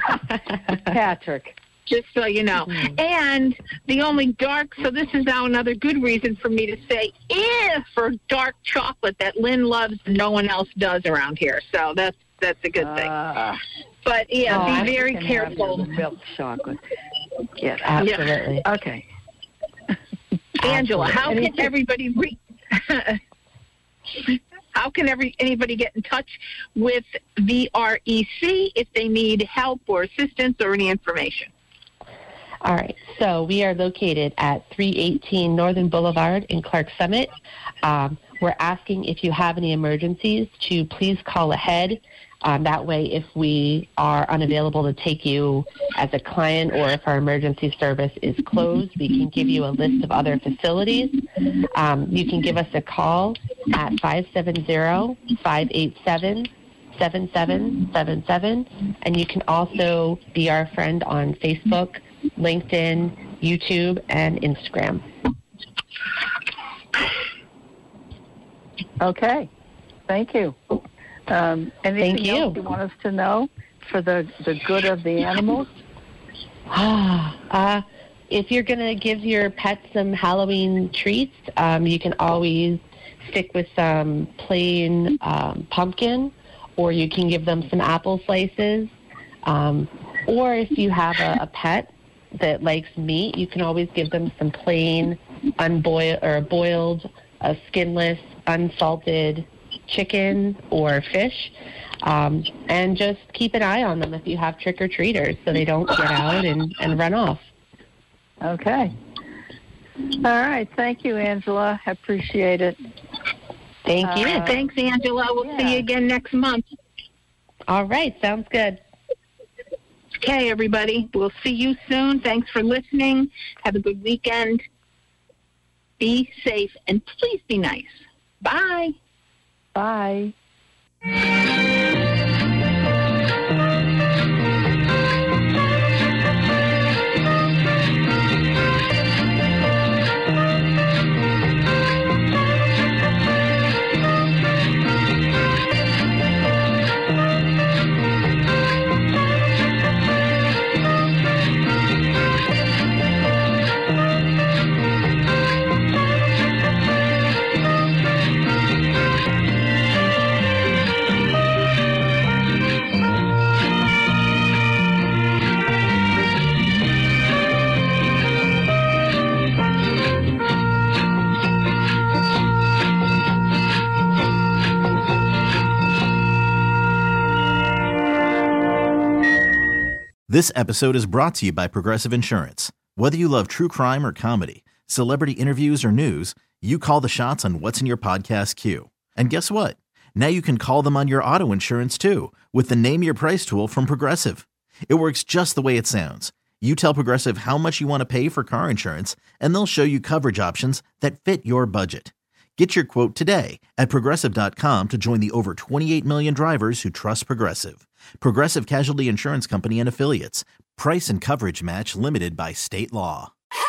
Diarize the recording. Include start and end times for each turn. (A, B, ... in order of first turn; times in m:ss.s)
0:00.8-0:01.6 A
0:01.9-0:13.1 B
0:12.8-0:13.6 A
0:14.0-0:15.9 B
0:14.5-0:16.8 A
0:14.5-0:14.9 C
0:17.6-0:19.0 A
0:17.8-0:18.7 C
0:20.6-0:21.7 A
0:20.6-0:23.2 B
0:24.2-0:31.5 B
0:32.6-0:37.3 C
0:37.8-1:05.0 C
1:09.0-1:09.5 A
1:10.1-1:10.6 A
1:11.3-1:15.8 A
1:12.0-1:12.6 C
1:16.7-1:28.9 C
1:29.4-1:47.5 C
1:48.4-1:48.9 A
1:50.2-1:52.8 A
1:53.8-1:54.6 C
1:54.0-1:54.6 A
1:54.3-1:56.7 B
1:55.4-1:55.9 A
1:57.7-1:58.8 C
2:00.2-2:04.6 B
2:06.0-2:08.9 B
2:09.8-2:10.3 A
3:00.3-3:33.3 D